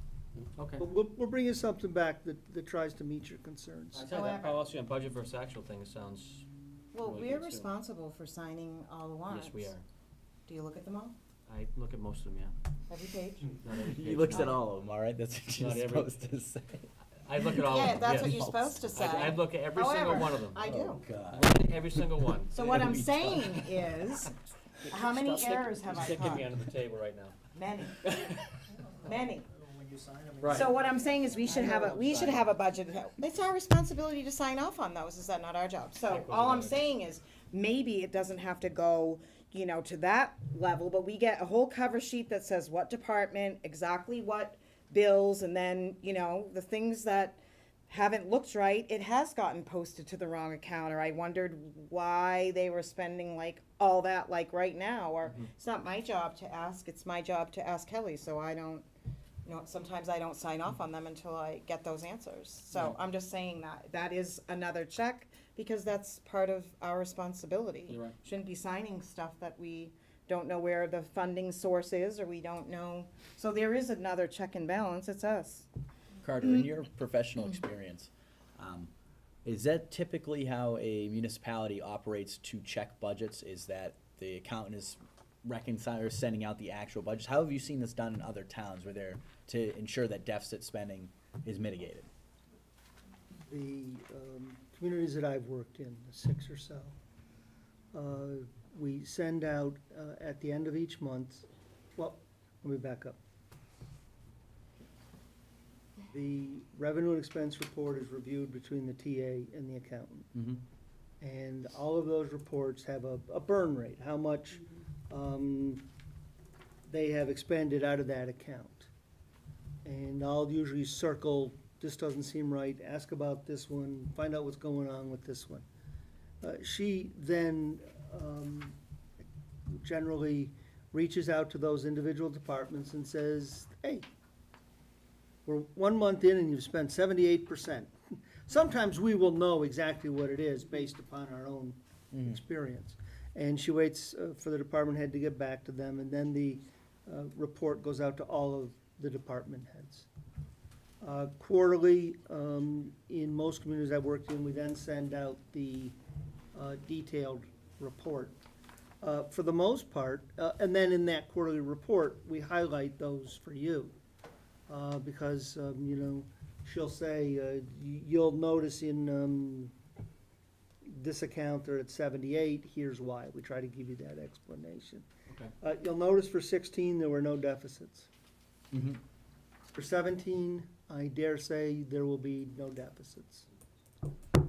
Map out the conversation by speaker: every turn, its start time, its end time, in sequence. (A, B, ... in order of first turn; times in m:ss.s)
0:00.4-0:00.9 A
0:00.8-0:04.1 B
0:03.9-0:07.7 A
0:04.1-0:04.7 C
0:06.9-0:09.7 C
0:09.3-0:09.8 A
0:10.5-0:11.2 C
0:11.5-0:12.5 A
0:12.9-0:13.6 C
0:13.6-0:14.6 A
0:13.7-0:17.4 D
0:15.5-0:16.2 A
0:17.3-0:20.7 A
0:17.6-0:21.0 C
0:18.0-0:18.8 D
0:20.6-0:22.1 D
0:21.3-0:23.5 A
0:22.5-0:24.3 C
0:22.7-0:23.6 D
0:24.9-0:26.5 C
0:24.9-0:27.4 A
0:27.5-0:28.4 C
0:28.0-0:28.5 A
0:28.8-0:32.3 B
0:29.0-0:29.5 C
0:30.4-0:30.7 A
0:30.5-0:58.9 C
0:31.5-0:32.5 A
0:36.0-0:36.8 A
0:59.4-1:15.7 C
1:07.9-1:08.2 A
1:16.2-1:18.9 D
1:19.4-1:32.1 D
1:33.5-1:37.0 B
1:37.9-1:43.2 B
1:46.1-1:50.3 B
1:50.3-1:50.6 D
1:51.2-1:55.8 B
1:56.9-1:58.9 B
1:59.8-2:05.7 B
2:06.4-2:08.8 B
2:09.7-2:14.1 B
2:15.5-2:30.1 B
2:22.1-2:22.4 D
2:31.0-2:36.0 B
2:36.5-2:38.4 B
2:39.0-2:44.0 B
2:44.7-2:49.7 B
2:50.8-2:55.1 B
2:55.6-2:58.1 B
2:58.7-2:59.0 D
2:59.8-3:03.5 B